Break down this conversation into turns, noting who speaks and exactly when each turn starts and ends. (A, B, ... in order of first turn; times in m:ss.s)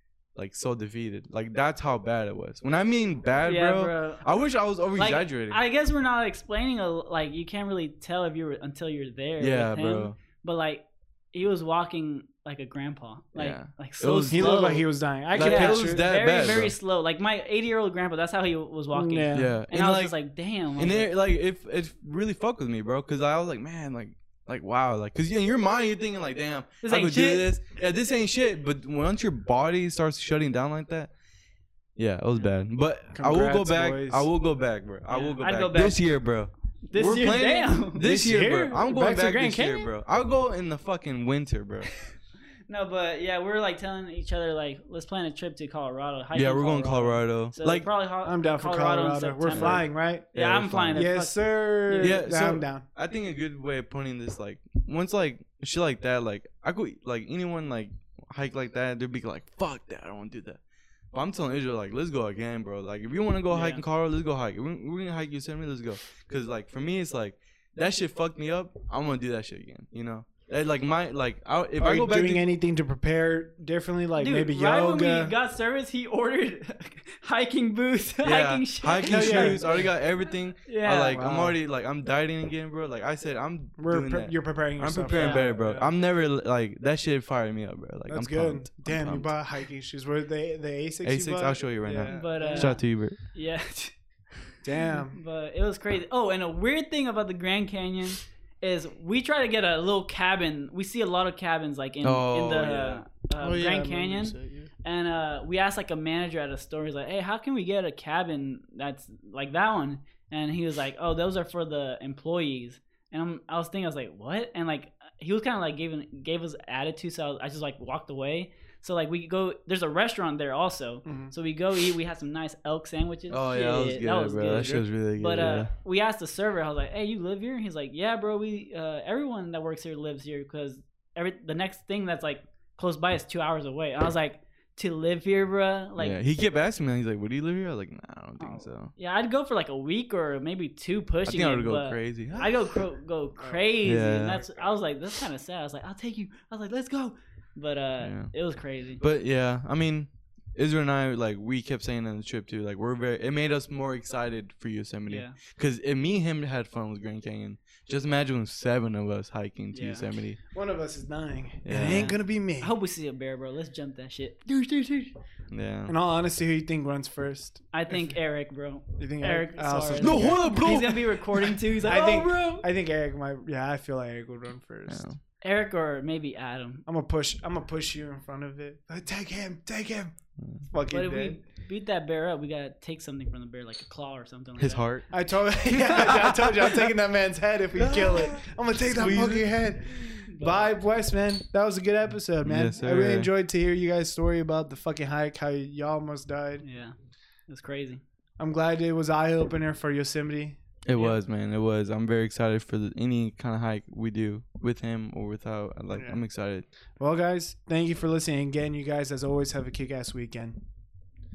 0:00.4-0:05.6 A
0:03.4-0:04.2 B
0:05.0-0:14.8 B
0:09.4-0:10.2 A
0:13.4-0:14.8 A
0:14.3-0:16.0 C
0:15.3-0:16.7 A
0:15.4-0:21.1 B
0:18.9-0:19.5 C
0:19.3-0:20.1 A
0:20.8-0:31.1 A
0:26.8-0:27.5 B
0:32.0-0:41.9 A
0:33.1-0:34.3 C
0:35.1-0:36.0 B
0:36.9-0:38.0 B
0:38.0-0:39.9 C
0:42.7-0:52.2 B
0:46.3-0:47.9 A
0:48.2-0:50.3 C
0:49.5-0:51.0 A
0:50.9-0:52.8 C
0:52.0-1:00.6 A
1:01.1-1:12.4 A
1:03.5-1:03.8 B
1:11.8-1:15.3 C
1:14.2-1:19.9 B
1:18.2-1:29.3 A
1:19.1-1:19.9 C
1:20.6-1:21.3 B
1:21.1-1:21.6 C
1:23.8-1:25.8 C
1:25.1-1:25.9 B
1:28.1-1:32.8 C
1:31.0-1:33.2 A
1:32.1-1:33.9 B
1:34.6-1:35.2 C
1:34.9-2:16.2 B
1:42.0-1:43.0 A
1:43.4-1:44.7 C
2:01.0-2:01.3 C
2:03.3-2:05.7 A
2:16.0-2:18.9 A
2:18.4-2:29.0 B
2:21.2-2:22.5 A
2:23.4-2:24.8 C
2:23.8-2:24.4 A
2:28.0-2:28.3 A
2:29.0-2:40.4 A
2:35.1-2:35.4 B
2:39.7-2:40.1 B
2:40.5-2:42.7 C
2:41.6-2:42.2 A
2:41.8-2:45.1 B
2:45.5-2:45.9 A
2:45.9-2:48.1 C
2:47.7-2:52.6 B
2:49.0-2:50.9 C
2:50.0-2:51.2 A
2:51.8-2:55.0 C
2:54.9-2:55.2 A
2:55.4-2:56.8 B
2:56.8-3:00.1 C
3:00.4-3:00.6 A
3:00.7-3:01.4 C
3:00.9-3:04.8 B
3:04.6-3:05.0 A
3:05.1-3:16.6 C
3:05.9-3:06.2 B
3:06.0-3:06.6 A
3:07.8-3:09.5 A
3:10.3-3:10.7 B
3:12.4-3:13.3 A
3:16.6-3:16.9 B
3:17.5-3:18.0 B
3:18.4-3:20.6 C
3:20.8-3:26.6 A
3:25.9-3:26.2 C
3:27.0-3:30.6 C